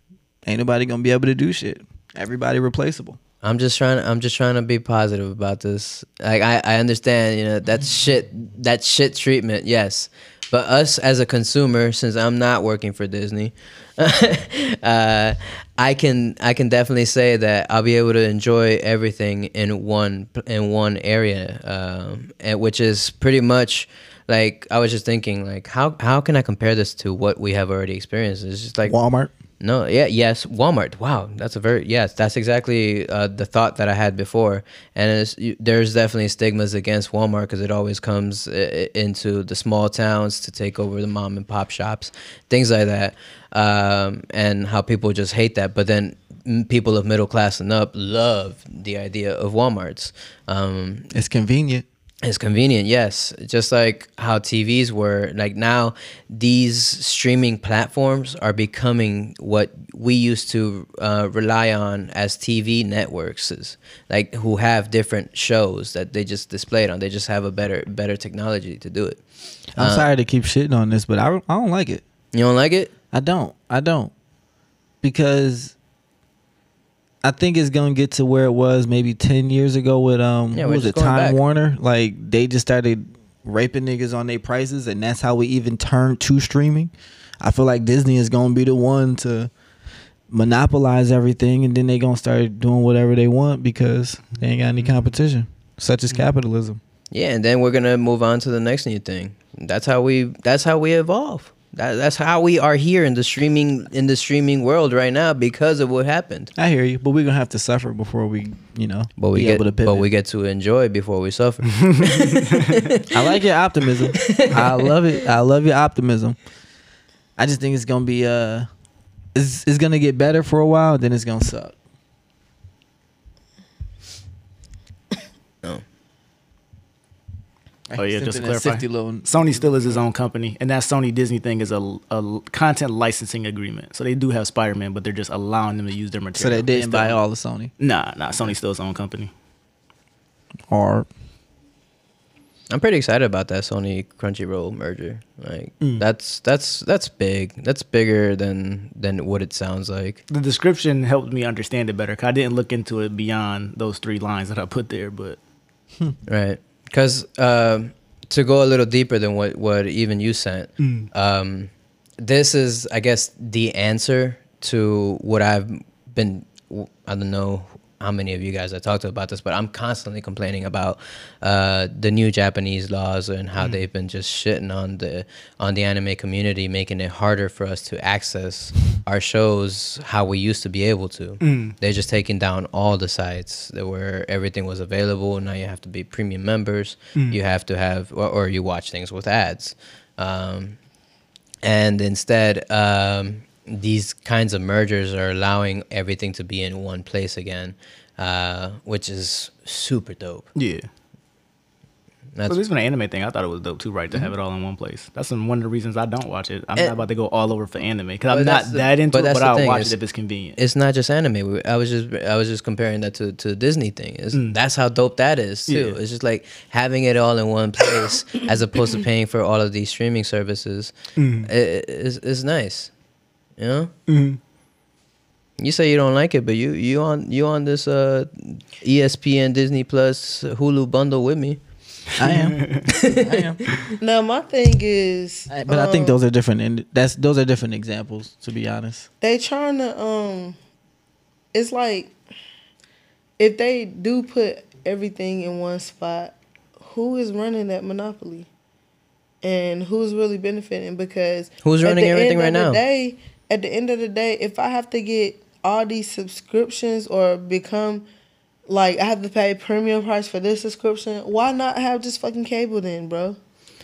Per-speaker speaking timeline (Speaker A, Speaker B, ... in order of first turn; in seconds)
Speaker A: 0.4-3.2, 28.9-29.3, 51.1-51.9, 69.8-72.0, 73.1-74.1, 75.0-75.8, 77.2-89.5, 90.3-96.8, 106.6-110.1, 113.1-116.4, 117.4-118.7, 119.3-121.8, 127.9-130.0, 136.3-137.7, 140.7-141.1, 232.2-233.7, 235.5-239.1
Speaker B: 3.4-28.9, 29.6-51.1, 52.2-69.2, 69.8-70.1, 72.3-72.9, 80.5-81.4, 97.1-106.5, 109.2-113.2, 114.2-114.8, 142.7-150.2, 156.3-190.8, 191.6-200.4, 208.3-210.0, 210.6-222.9, 223.6-223.9, 225.6-231.6, 232.9-233.4, 251.6-252.8
Speaker C: 112.1-112.8, 128.0-137.2, 137.8-139.3, 150.3-155.4, 160.8-161.1, 181.4-181.7, 200.6-200.8, 202.5-210.6, 215.7-216.0, 221.2-221.5, 224.1-224.4, 232.2-232.9
Speaker D: 234.0-236.2, 239.2-240.6, 241.5-242.1, 243.4-248.5, 249.4-258.0, 258.7-263.4